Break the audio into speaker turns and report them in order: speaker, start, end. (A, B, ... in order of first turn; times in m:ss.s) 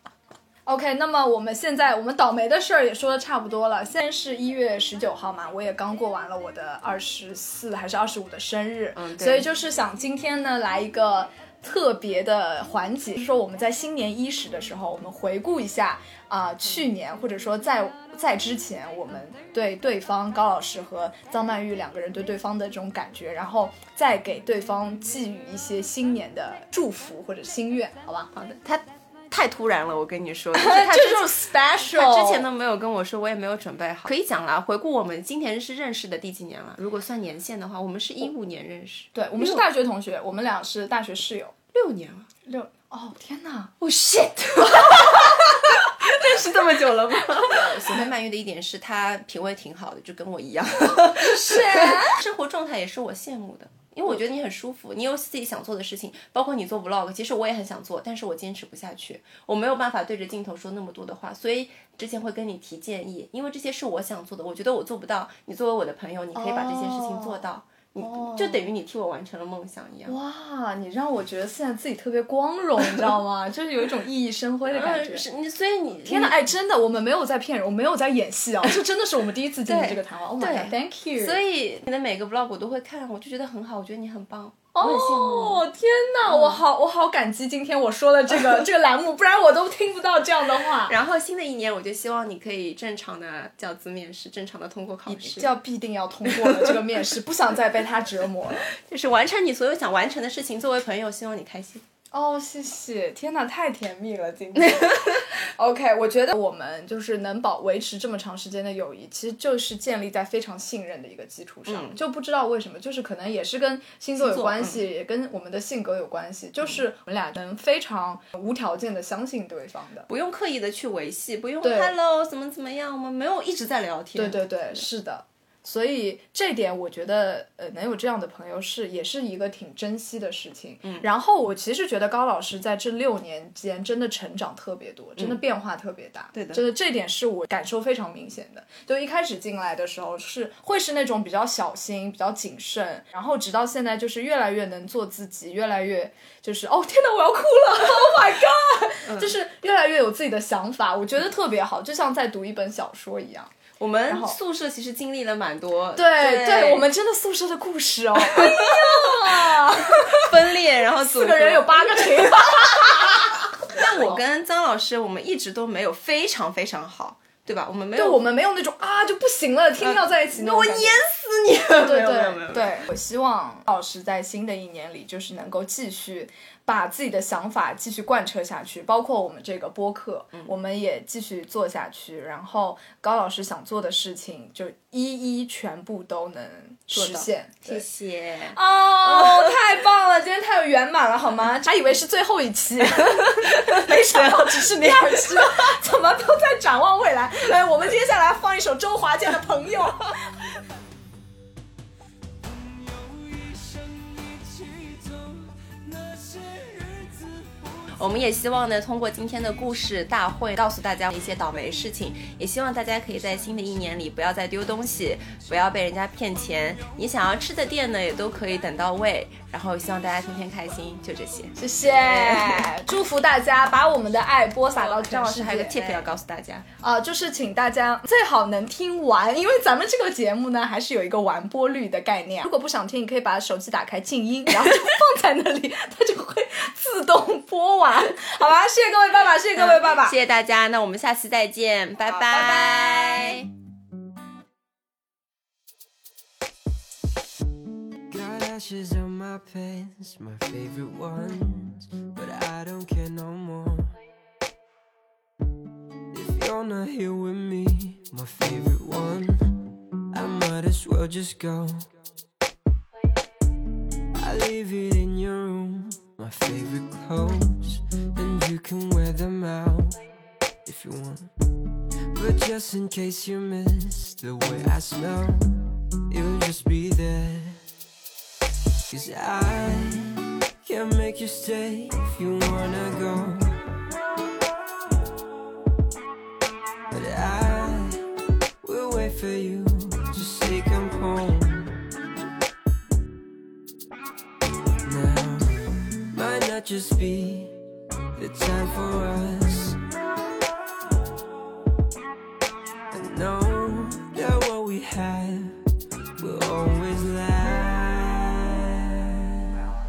0:00.6-0:28.3 A
0:08.9-0:09.5 B
0:28.3-0:39.6 B
0:30.5-0:32.5 A
0:39.1-0:41.5 A
0:41.7-0:42.3 B
0:42.4-0:43.7 A
0:43.8-1:10.2 B
0:47.3-0:48.0 A
0:51.0-0:52.2 A
1:06.4-1:07.4 A
1:08.0-1:08.6 A
1:10.0-1:15.2 A
1:14.7-1:16.4 B
1:16.0-1:21.4 A
1:19.6-1:25.6 B
1:24.7-1:30.9 A
1:26.3-1:26.6 B
1:30.8-1:35.5 B
1:35.1-1:38.6 A
1:36.3-1:36.8 B
1:38.7-1:41.8 B
1:42.1-2:00.1 A
1:44.5-1:45.2 B
1:51.6-1:52.0 B
1:54.2-1:54.8 B
2:00.1-2:04.8 B
2:01.6-2:01.9 A
2:04.1-2:33.5 A
2:16.3-2:16.6 B
2:29.1-2:29.3 B
2:33.8-2:36.9 B
2:34.1-2:34.4 A
2:36.0-2:40.4 A
2:38.2-2:48.3 B
2:40.9-2:44.2 A
2:48.0-2:51.0 A
2:49.8-2:52.8 B
2:51.8-3:07.8 A
3:06.9-3:09.6 B
3:08.5-3:20.2 A
3:13.0-3:15.7 B
3:22.4-3:27.9 C
3:28.0-3:42.7 B
3:41.6-3:46.0 A
3:44.7-3:46.7 B
3:46.8-4:00.2 A
3:59.6-4:03.5 B
4:02.1-4:03.4 A
4:08.1-4:14.0 C
4:16.1-4:19.6 C
4:20.1-4:21.9 C
4:24.1-4:30.0 C
4:30.6-4:31.3 C
4:32.1-4:37.6 C
4:38.9-4:43.6 C
4:46.9-4:48.0 C
4:48.6-4:51.8 C
4:54.8-4:57.6 C
4:58.2-4:59.8 C
5:02.9-5:05.6 C
5:06.2-5:09.5 C